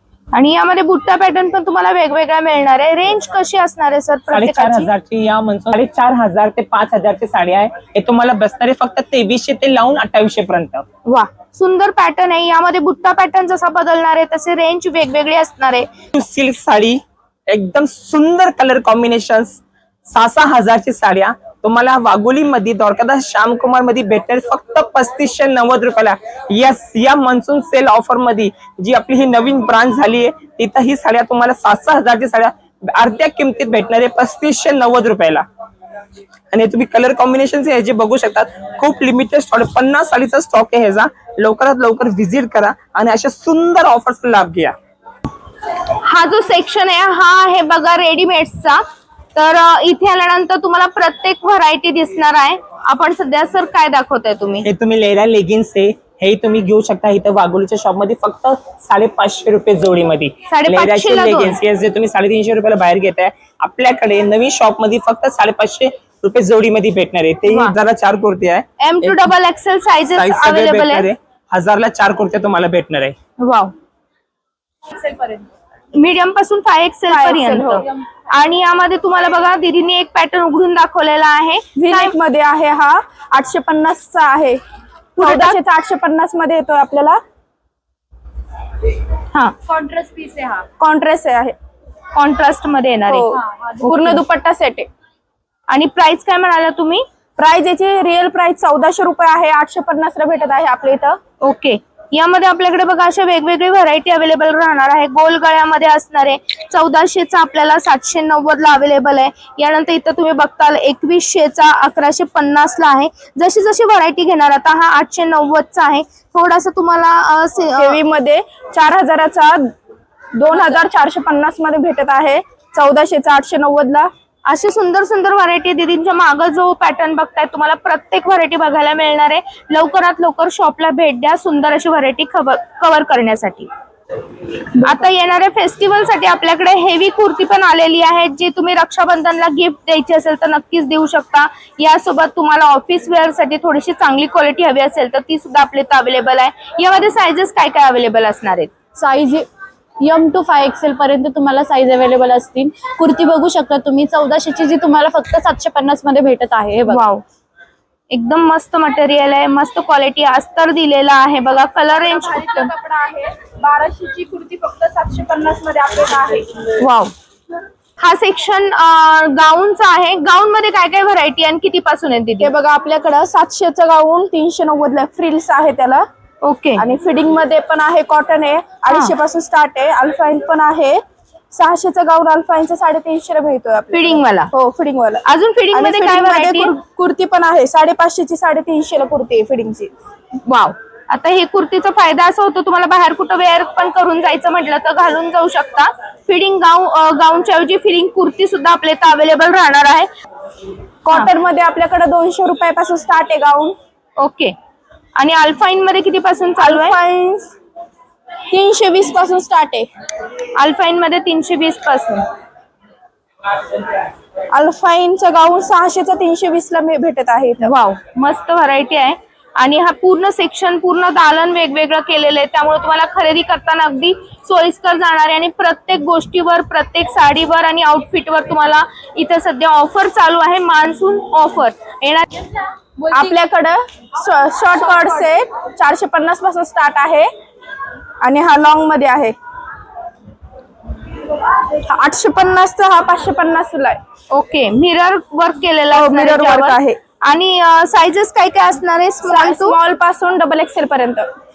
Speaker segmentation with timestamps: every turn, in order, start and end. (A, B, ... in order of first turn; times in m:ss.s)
0:00.3-0:04.9 A
0:04.3-0:10.9 B
0:11.0-0:15.9 A
0:16.1-0:35.4 B
0:36.5-0:44.7 B
0:45.9-0:48.8 A
0:49.3-0:54.7 A
0:54.6-1:09.2 B
1:00.5-1:01.6 A
1:07.5-1:07.7 A
1:08.8-1:11.1 A
1:10.1-1:13.2 B
1:13.4-1:13.7 A
1:15.0-1:15.4 A
1:15.9-1:22.1 A
1:17.1-1:17.9 C
1:21.8-1:24.6 C
1:25.2-1:25.6 A
1:25.2-1:27.2 C
1:29.6-1:30.7 D
1:30.8-1:31.5 C
1:32.1-1:34.2 A
1:33.1-1:34.9 C
1:33.4-1:33.8 D
1:35.7-1:37.0 A
1:37.4-1:41.2 C
1:41.4-1:58.0 A
1:57.7-1:59.6 C
2:00.4-2:04.1 C
2:04.4-2:13.7 A
2:14.8-2:28.7 A
2:29.0-2:29.5 D
2:30.0-2:37.1 D
2:36.9-2:37.2 A
2:38.1-2:42.7 A
2:41.9-2:46.7 C
2:46.8-2:47.1 A
2:48.0-2:52.5 A
2:52.4-2:56.0 C
2:56.4-2:56.8 A
2:56.8-3:01.0 C
2:58.9-2:59.1 A
3:01.5-3:09.9 C
3:03.9-3:04.5 A
3:05.2-3:06.7 A
3:10.5-3:20.1 A
3:21.0-3:23.7 C
3:24.2-3:24.5 A
3:25.2-3:27.0 A
3:26.6-3:27.5 C
3:28.5-3:29.9 C
3:30.6-3:32.3 A
3:34.5-3:37.7 C
3:37.6-3:53.3 A
3:53.1-3:57.3 C
3:58.2-3:59.3 C
4:01.9-4:04.0 C
4:04.3-4:09.8 A
4:05.9-4:07.0 C
4:09.2-4:11.3 C